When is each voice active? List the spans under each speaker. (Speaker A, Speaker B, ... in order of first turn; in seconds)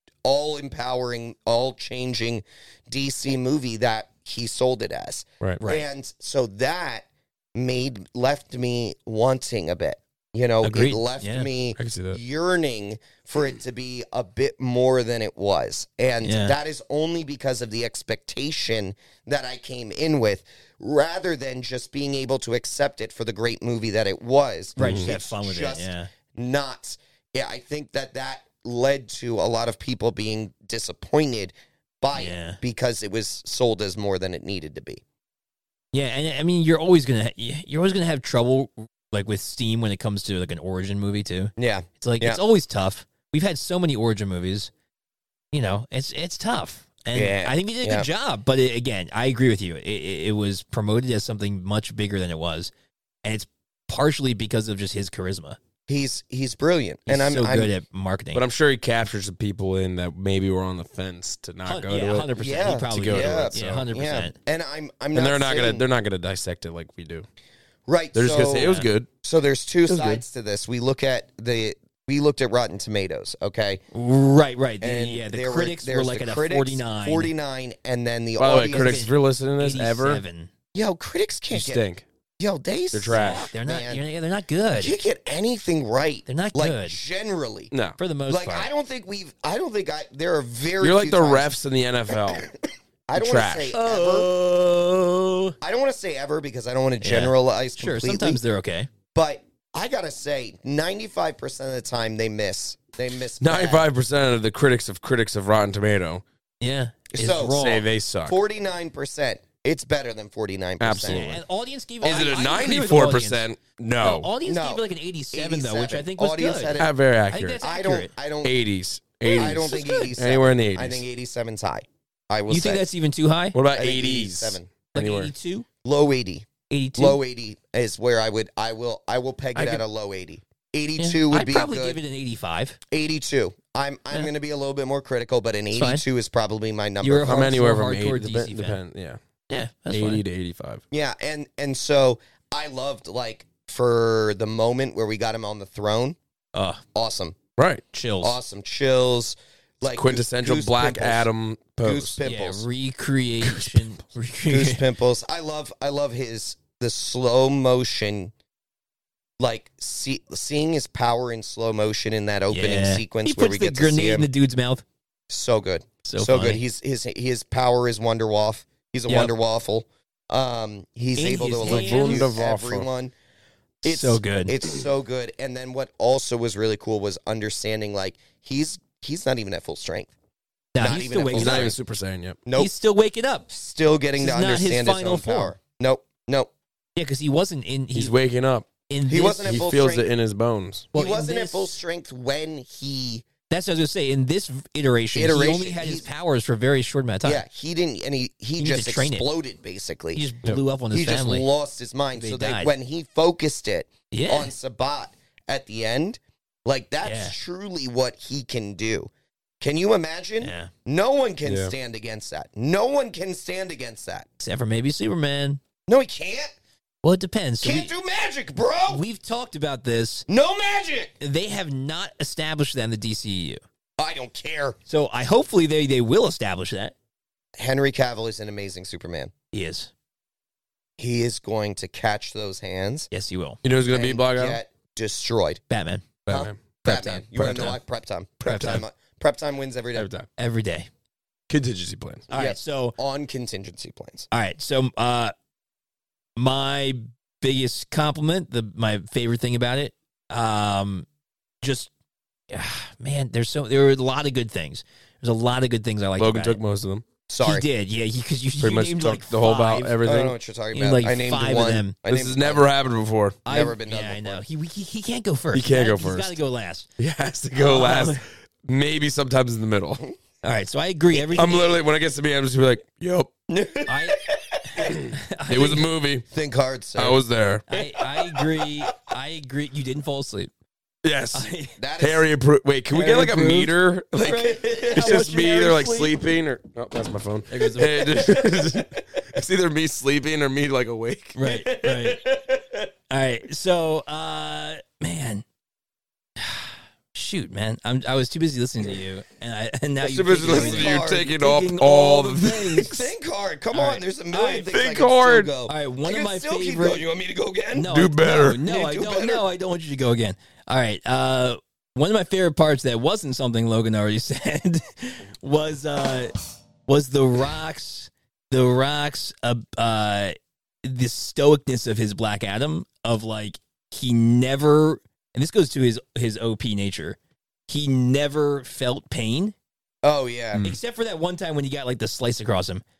Speaker A: 0.2-35.0, 41.6-42.4, 47.1-48.1, 55.9-57.7, 62.4-65.8, 67.9-73.8, 74.8-79.0, 80.7-81.8, 82.4-84.0, 84.8-87.7, 88.3-91.5, 92.1-92.5, 93.1-94.3, 95.6-98.4, 99.1-103.8, 107.1-107.6, 108.2-111.3, 112.0-112.7, 114.4-116.9, 117.6-118.5, 119.3-122.8, 123.7-124.7, 125.8-132.0, 132.9-137.5, 140.9-146.2, 146.9-147.4, 148.2-151.3, 151.8-152.7, 154.5-158.3, 159.4-164.3, 165.3-173.1, 173.8-180.1, 180.8-181.7, 182.4-182.7, 183.5-186.5, 189.1-190.1, 190.9-193.2, 195.1-196.1, 197.2-200.2, 200.9-214.3, 215.9-216.5, 217.6-219.0, 220.3-221.1, 224.0-224.8, 227.6-229.3, 231.0-233.1, 233.9-235.6, 236.3-240.1, 242.3-244.3, 257.3-257.6, 260.0-262.7, 263.4-264.4, 273.5-274.9, 276.3-277.2, 281.8-282.2, 284.3-285.1, 291.5-292.6, 300.4-301.3, 302.8-307.9, 308.6-309.4, 330.0-330.6
Speaker B: 5.6-5.8, 10.6-11.5, 16.2-16.5, 24.8-26.1, 32.1-32.6, 35.9-44.7, 45.5-52.7, 53.2-55.6, 57.1-58.4, 61.6-64.3, 73.9-77.3, 78.6-80.5, 83.1-84.9, 86.3-87.0, 88.0-88.7, 93.7-95.5, 97.0-98.9, 106.6-107.8, 111.0-113.4, 114.0-118.1, 119.2-120.1, 122.5-123.6, 124.9-125.7, 126.7-127.2, 129.5-129.8, 131.0-132.8, 135.7-136.0, 137.0-138.8, 139.5-140.2, 146.5-146.8, 147.9-148.4, 152.2-154.8, 162.5-164.8, 166.0-166.6, 171.2-172.3, 173.8-174.5, 180.7-181.7, 182.5-183.5, 184.2-185.5, 186.9-188.1, 188.9-189.6, 190.9-191.7, 193.5-197.4, 198.6-199.2, 200.1-201.5, 202.1-202.7, 204.1-204.5, 207.0-207.3, 210.4-210.7, 214.4-215.6, 217.0-217.9, 218.9-220.3, 221.2-223.6, 224.9-226.9, 229.5-229.9, 233.1-233.6, 235.7-236.1, 236.8-237.8, 238.4-238.8, 240.4-240.9, 242.3-242.9, 244.3-245.3, 246.4-251.1, 251.6-251.9, 252.5-256.6, 257.4-260.0, 260.7-261.9, 263.4-266.9, 267.5-268.2, 270.4-271.8, 273.9-275.9, 277.7-280.5, 281.3-281.7, 282.9-286.1, 287.5-288.5, 291.3-292.3, 293.1-295.4, 296.4-303.0, 303.7-304.7, 305.6-307.0, 307.7-316.3, 316.9-329.5, 330.6-332.8
Speaker C: 11.8-12.2, 24.8-25.1, 58.3-62.3, 62.9-63.8, 65.1-67.2, 68.1-69.1, 69.9-70.2, 78.4-80.2, 81.5-82.0, 82.9-83.5, 87.7-88.0, 90.8-92.5, 93.1-93.7, 103.4-106.2, 107.5-108.4, 110.8-111.4, 112.0-114.3, 116.8-117.6, 118.4-121.0, 123.5-125.3, 137.2-139.2, 139.9-140.8, 147.6-147.8, 149.8-152.2, 153.4-153.9, 171.6-172.9, 181.3-182.4, 187.9-188.7, 189.4-190.9, 211.4-211.7, 233.6-234.6, 236.2-236.7, 237.3-237.7, 238.4-238.8, 239.9-240.3, 241.5-242.3, 256.2-257.0, 258.6-260.4, 262.1-263.4, 265.5-266.4, 267.0-270.0, 271.1-273.3, 274.9-276.3, 276.9-277.7, 281.0-281.5, 282.0-291.4, 300.0-303.1, 304.6-305.5, 307.9-308.6